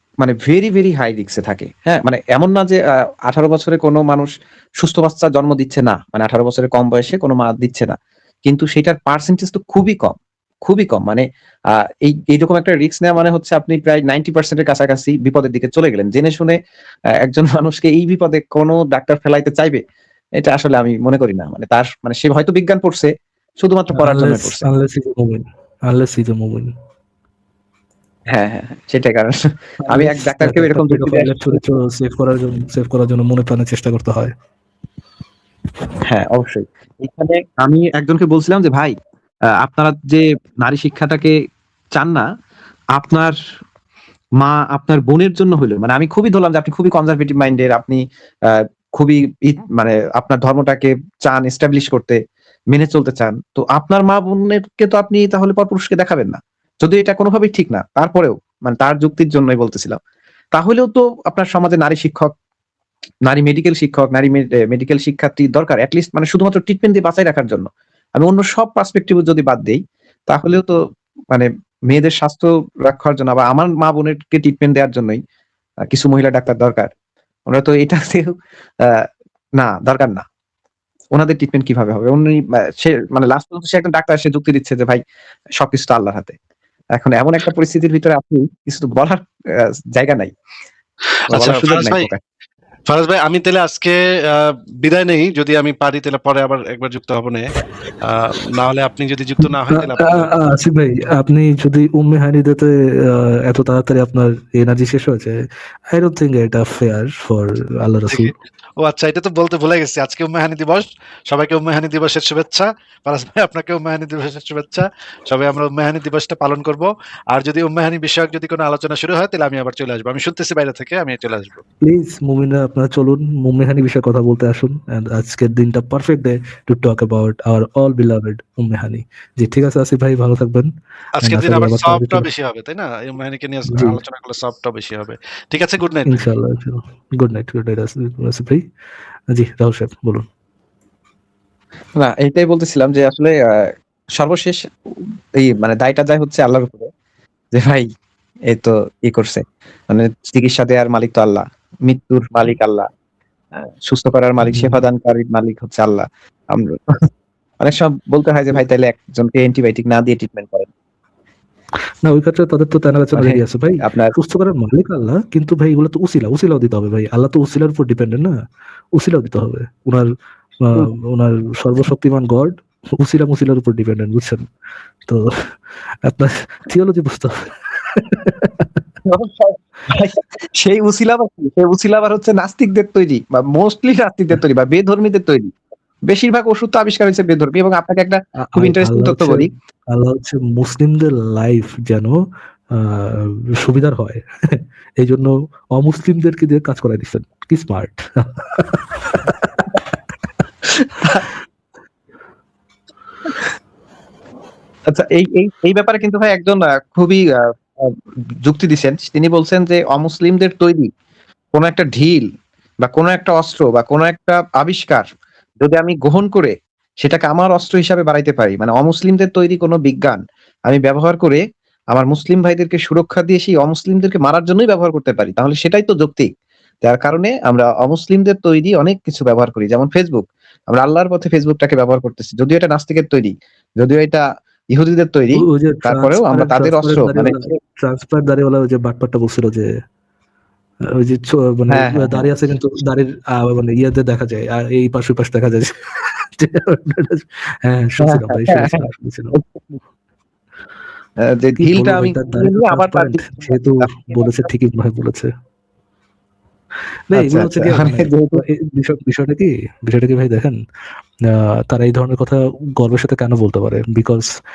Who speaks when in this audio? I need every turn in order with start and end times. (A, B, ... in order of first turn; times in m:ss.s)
0:00.2-0:16.6 A
0:17.2-0:19.8 A
0:20.4-0:24.7 A
0:24.0-0:26.7 B
0:28.3-0:31.6 A
0:29.9-0:34.3 B
0:36.0-0:38.9 A
0:39.6-0:41.4 A
0:41.9-0:42.3 A
0:42.9-0:43.4 A
0:44.4-0:52.2 A
0:52.7-1:00.0 A
1:00.5-1:02.3 A
1:03.3-1:10.8 A
1:11.3-1:15.2 A
1:15.9-1:16.9 A
1:17.5-1:19.0 A
1:19.6-1:20.2 A
1:21.1-1:25.0 A
1:25.6-1:26.4 A
1:26.9-1:30.3 A
1:31.3-1:32.1 C
1:31.3-1:32.2 A
1:32.9-1:37.5 C
1:38.0-1:40.3 C
1:39.7-1:45.4 B
1:45.9-1:48.3 B
1:48.1-2:01.6 C
2:01.8-2:12.2 B
2:11.2-2:16.2 C
2:13.7-2:14.0 B
2:16.1-2:18.6 B
2:19.3-2:20.3 B
2:22.0-2:26.9 A
2:27.5-2:27.9 A
2:28.5-2:32.9 A
2:33.6-2:37.1 A
2:34.5-2:34.7 B
2:37.6-2:40.7 A
2:42.0-2:48.3 B
2:43.2-2:44.1 A
2:49.0-2:50.1 B
2:50.6-2:54.5 B
2:55.1-2:55.5 B
2:56.0-2:58.8 B
2:59.0-3:05.5 A
3:06.1-3:09.5 A
3:08.4-3:12.2 B
3:12.7-3:19.6 B
3:20.7-3:21.2 A
3:24.9-3:30.9 A
3:31.5-3:32.2 A
3:32.8-3:35.1 A
3:35.6-3:46.3 A
3:46.8-3:57.6 A
3:55.4-3:59.7 B
4:00.8-4:09.4 B
4:01.7-4:02.3 A
4:08.0-4:09.8 A
4:11.2-4:14.3 A
4:11.6-4:15.3 B
4:17.1-4:20.6 B
4:17.2-4:18.4 A
4:21.2-4:24.3 B